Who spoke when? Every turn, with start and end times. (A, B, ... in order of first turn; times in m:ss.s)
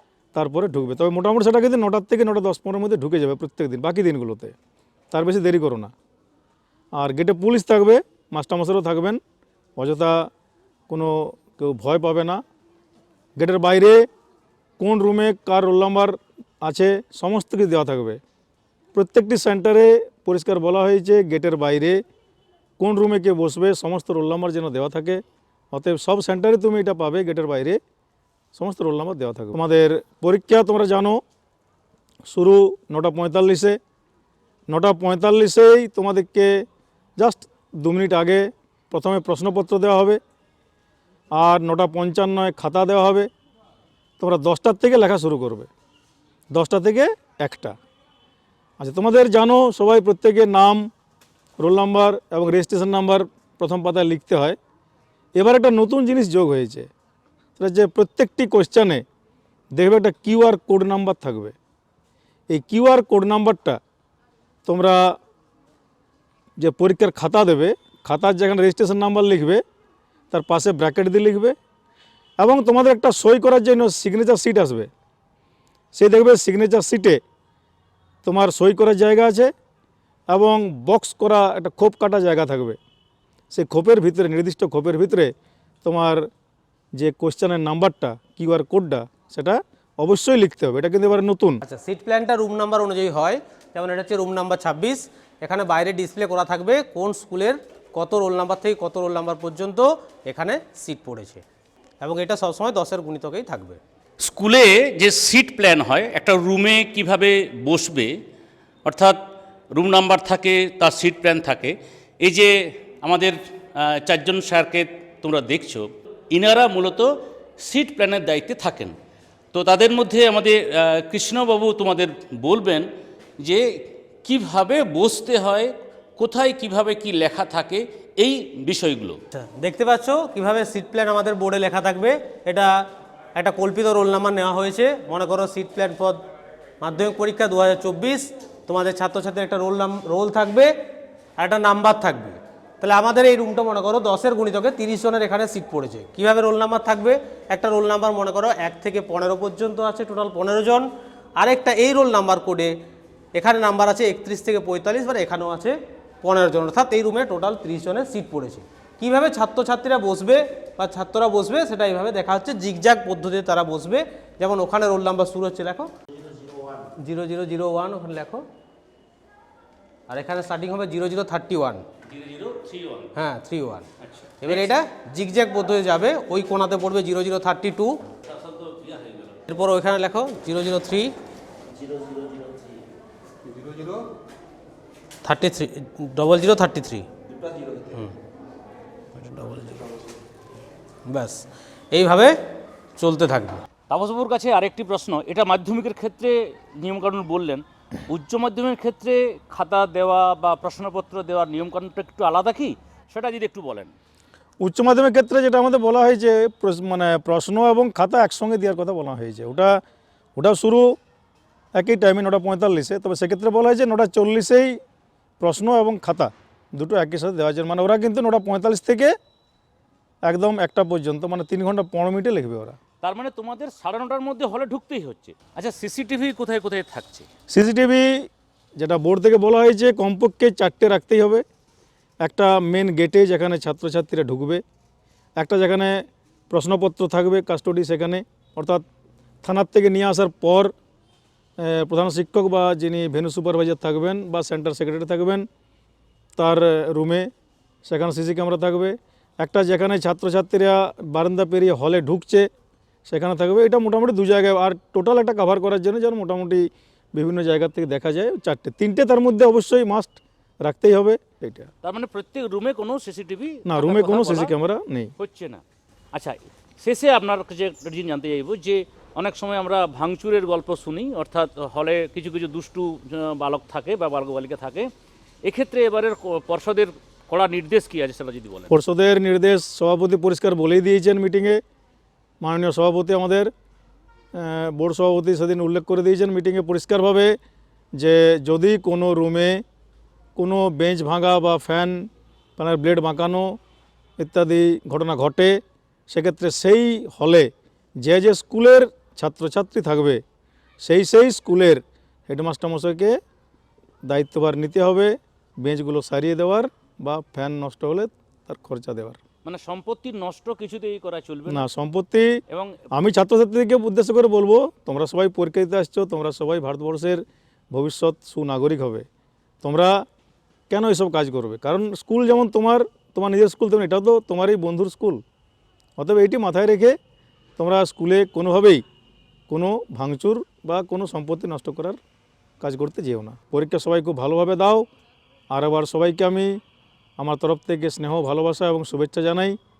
0:00.3-0:04.5 A
0:05.1-0:05.9 A
0:06.9-0:09.2 A
0:09.8-0:10.3 A
0:10.9-0:12.4 A
0:13.4-0:14.0 A
0:14.8-0:18.2 A
0:18.9-0:22.0 A
0:22.8-0:25.2 A
0:25.7-0:27.8 A
0:28.5-0:31.2 A
0:32.3-0:33.8 A
0:34.7-0:36.6 A
0:37.2-0:40.2 A
0:41.3-0:43.3 A
0:44.2-0:45.7 A
0:46.5-0:47.7 A
0:48.8-0:50.9 A
0:51.6-0:54.6 A
0:55.4-0:56.9 A
0:57.6-0:59.0 A
0:59.7-1:01.5 A
1:02.5-1:03.8 A
1:04.6-1:05.1 A
1:06.6-1:09.6 A
1:10.3-1:11.5 A
1:12.4-1:14.9 A
1:15.9-1:17.2 A
1:18.2-1:19.5 A
1:20.3-1:22.8 A
1:23.5-1:25.3 A
1:25.8-1:26.2 A
1:27.0-1:31.6 A
1:31.6-1:41.4 B
1:42.0-1:43.8 B
1:44.2-1:48.1 C
1:48.8-1:49.2 C
1:49.7-1:52.5 C
1:53.0-1:57.1 C
1:57.6-1:58.9 C
1:59.5-2:02.9 C
2:04.2-2:09.2 C
2:09.3-2:12.7 B
2:13.4-2:16.2 B
2:16.8-2:20.7 B
2:21.4-2:30.9 B
2:31.4-2:32.7 B
2:33.4-2:45.9 B
2:47.0-2:48.4 B
2:50.1-2:51.8 B
2:52.0-2:53.1 C
2:53.1-2:53.9 B
2:54.0-2:54.7 C
2:54.4-2:58.0 B
2:58.2-2:59.4 C
2:59.5-3:01.1 B
3:05.2-3:07.0 B
3:09.2-3:09.8 B
3:11.1-3:12.3 B
3:13.0-3:13.6 B
3:13.9-3:23.9 C
3:24.6-3:29.8 A
3:30.4-3:31.0 A
3:31.7-3:34.8 A
3:35.4-3:39.1 A
3:40.2-3:42.8 A
3:43.0-3:47.3 C
3:47.5-3:48.3 A
3:48.8-3:51.4 A
3:52.2-3:54.6 A
3:55.4-3:58.8 A
3:59.4-4:00.7 A
4:01.6-4:05.4 A
4:06.4-4:07.3 A
4:07.8-4:12.5 A
4:13.1-4:21.7 A
4:21.8-4:24.5 C
4:23.6-4:25.1 A
4:25.2-4:25.6 C
4:26.1-4:34.9 C
4:35.4-4:38.7 C
4:38.7-4:41.6 A
4:42.4-4:43.5 A
4:44.3-4:47.3 A
4:48.0-4:49.6 A
4:50.4-4:53.6 A
4:54.2-4:55.6 A
4:56.1-4:57.5 A
4:58.0-5:00.2 A
5:00.8-5:03.2 A
5:04.1-5:09.2 A
5:09.4-5:11.6 C
5:11.4-5:12.4 A
5:12.5-5:12.8 C
5:12.9-5:19.0 A
5:19.6-5:20.0 A
5:20.7-5:25.2 A
5:26.0-5:26.9 A
5:27.6-5:28.8 A
5:29.5-5:32.0 A
5:32.6-5:34.8 A
5:35.5-5:36.6 A
5:37.2-5:39.6 A